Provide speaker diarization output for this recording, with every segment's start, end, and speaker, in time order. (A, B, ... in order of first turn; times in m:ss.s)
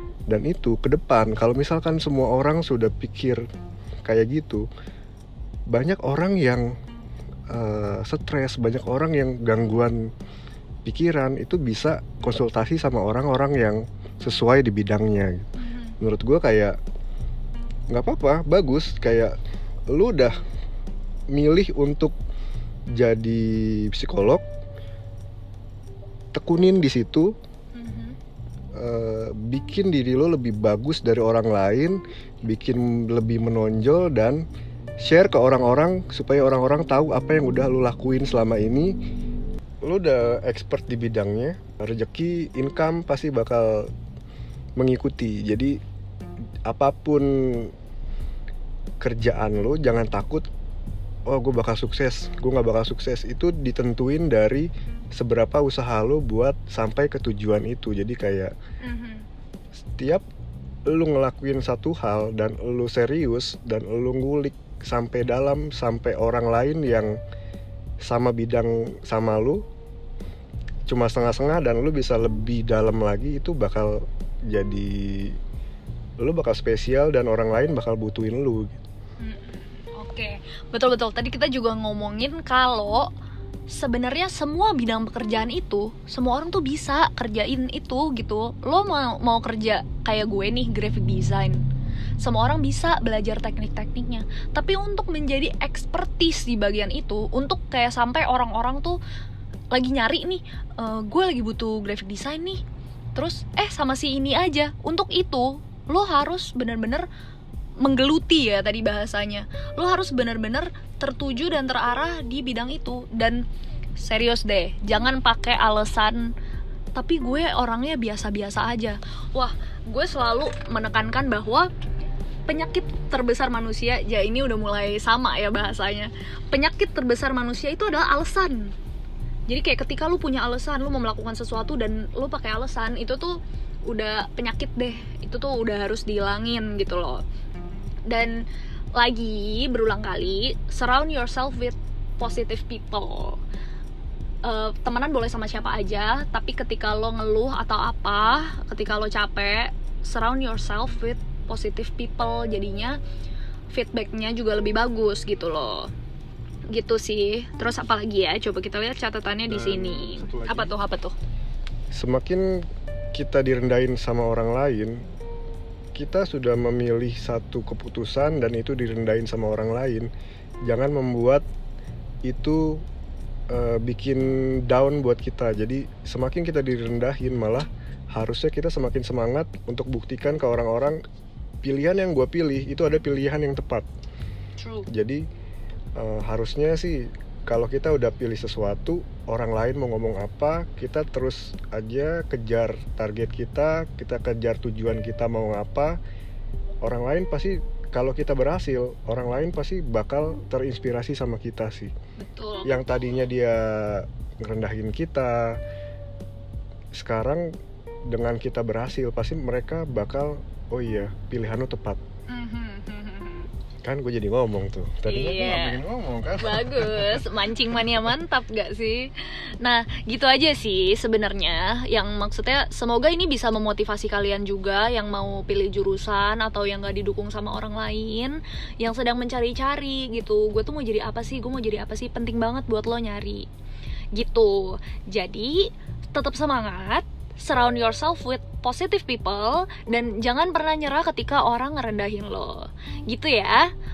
0:00.3-0:03.4 A
0:04.0-0:04.7 A
0:05.7-0:06.7 A
0:07.5-0:10.1 A
0:10.8-0:16.8 A
0:15.6-0:16.0 B
0:17.9-0:19.3 A
0:19.9-0:20.4 A
0:21.3-0:22.2 A
0:23.0-0:24.4 A
0:26.3-0:27.3 A
0:27.7-0:28.2 B
0:28.8-0:34.4 A
0:35.0-0:38.9 A
0:39.8-0:43.9 A
0:44.8-0:45.8 A
0:46.7-0:47.7 A
0:49.0-0:50.5 A
0:51.3-0:58.5 A
0:58.8-0:59.2 B
1:00.0-1:00.2 A
1:00.9-1:07.1 A
1:08.0-1:09.6 A
1:10.9-1:15.4 A
1:16.2-1:18.8 A
1:19.2-1:23.1 B
1:23.7-1:31.6 B
1:32.2-1:39.0 B
1:39.7-1:42.6 B
1:43.2-1:47.1 B
1:47.8-1:53.4 B
1:54.0-1:56.3 B
1:57.0-2:01.7 B
2:02.5-2:08.7 B
2:09.5-2:17.2 B
2:18.1-2:18.4 B
2:19.0-2:23.4 B
2:24.4-2:33.0 B
2:33.7-2:35.9 B
2:36.7-2:41.1 B
2:39.5-2:40.8 A
2:41.9-2:42.6 A
2:43.1-2:45.0 A
2:46.0-2:50.1 A
2:50.7-2:51.4 A
2:52.2-2:52.8 A
2:53.5-3:01.0 A
3:01.6-3:03.9 A
3:04.6-3:04.9 B
3:04.9-3:05.2 A
3:06.0-3:16.0 A
3:16.8-3:21.9 A
3:22.2-3:22.8 B
3:22.6-3:25.6 A
3:26.9-3:27.5 A
3:28.1-3:32.0 A
3:32.3-3:33.5 B
3:33.8-3:37.2 A
3:35.0-3:35.8 B
3:36.4-3:53.5 B
3:54.1-4:03.7 B